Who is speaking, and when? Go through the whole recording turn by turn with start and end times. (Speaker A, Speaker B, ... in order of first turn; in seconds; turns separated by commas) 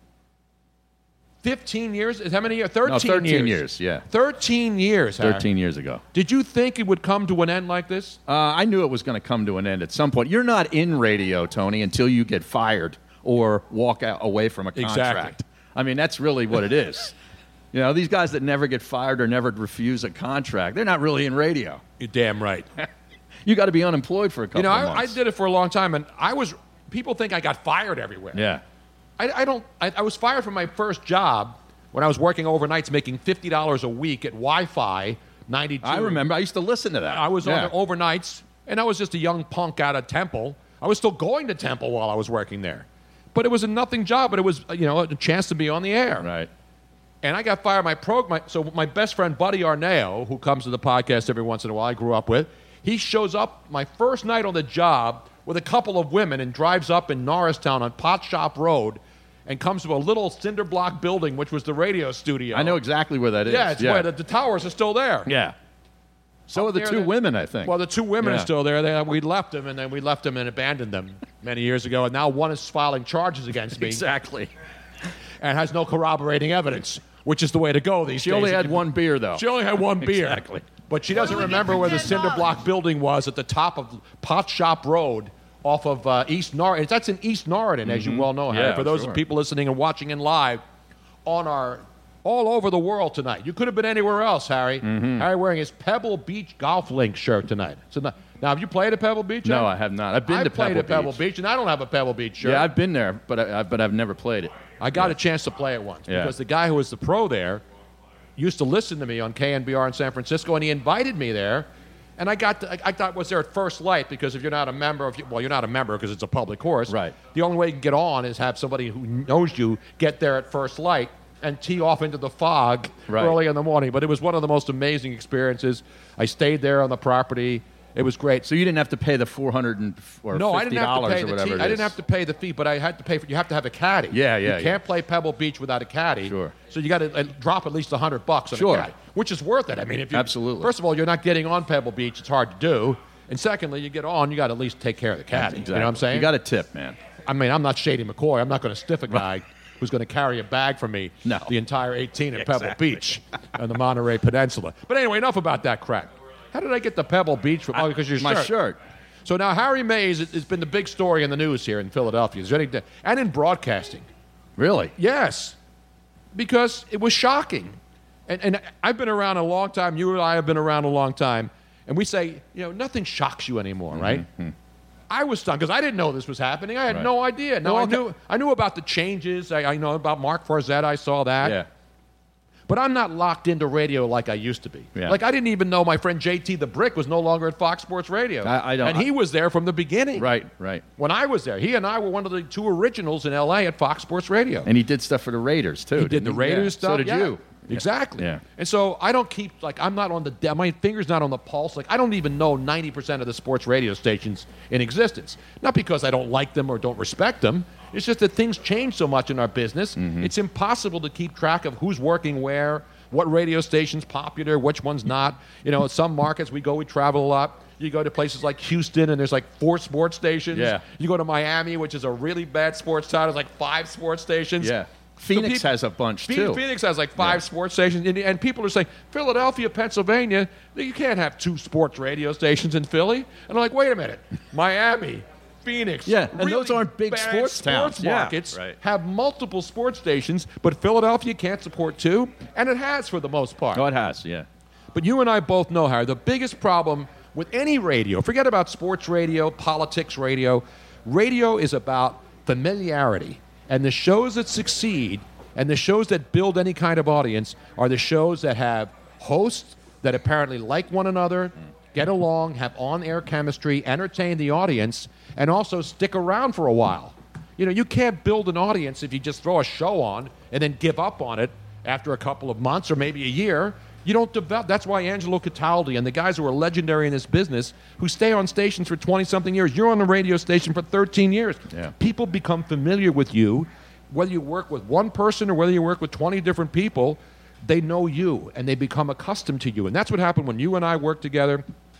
Speaker A: 1.4-5.5, Speaker B: 2.8-4.0, Speaker B: 5.2-6.0, Speaker A: 6.1-8.2, Speaker B: 8.3-17.1, Speaker A: 14.8-15.4, Speaker B: 17.7-21.8, Speaker A: 22.0-22.7, Speaker B: 23.4-25.2, Speaker A: 24.5-28.4, Speaker B: 28.3-28.6, Speaker A: 29.2-36.2, Speaker B: 35.8-37.7, Speaker A: 37.1-46.3, Speaker B: 46.2-46.5, Speaker A: 47.2-62.8, Speaker B: 62.5-64.1, Speaker A: 63.4-65.3, Speaker B: 65.2-65.5, Speaker A: 66.5-67.1, Speaker B: 66.5-68.5, Speaker A: 67.6-74.0, Speaker B: 73.7-74.5, Speaker A: 75.4-78.8, Speaker B: 78.2-79.4, Speaker A: 79.3-90.6, Speaker B: 80.0-81.7, Speaker B: 87.8-89.2, Speaker A: 91.2-99.7, Speaker B: 94.8-95.2, Speaker B: 99.4-101.2, Speaker A: 100.2-102.7, Speaker B: 102.4-105.1, Speaker A: 104.8-107.6, Speaker B: 106.1-106.3, Speaker A: 108.4-128.4, Speaker B: 116.9-117.2, Speaker B: 123.1-123.4, Speaker B: 128.4-131.9, Speaker A: 130.3-146.3, Speaker B: 134.1-134.8, Speaker B: 136.2-136.5, Speaker B: 138.5-138.9, Speaker B: 140.1-140.7, Speaker B: 145.3-147.0, Speaker A: 147.2-158.5, Speaker B: 151.2-151.5, Speaker B: 152.4-153.2, Speaker B: 157.7-158.8, Speaker A: 159.2-164.1, Speaker B: 164.6-164.9, Speaker A: 164.9-165.5, Speaker A: 166.3-174.2, Speaker B: 173.9-174.5, Speaker A: 175.1-181.6, Speaker B: 177.6-178.0, Speaker B: 181.4-181.7, Speaker A: 182.7-190.3, Speaker B: 188.4-189.1, Speaker B: 190.2-190.8, Speaker A: 191.0-194.7, Speaker B: 194.6-198.4, Speaker A: 196.0-224.7, Speaker B: 210.0-210.3, Speaker B: 220.5-220.8, Speaker B: 224.6-226.6, Speaker A: 225.3-225.7, Speaker A: 226.3-243.8, Speaker B: 227.2-227.4, Speaker B: 236.1-238.8, Speaker B: 243.7-244.5, Speaker A: 244.9-291.6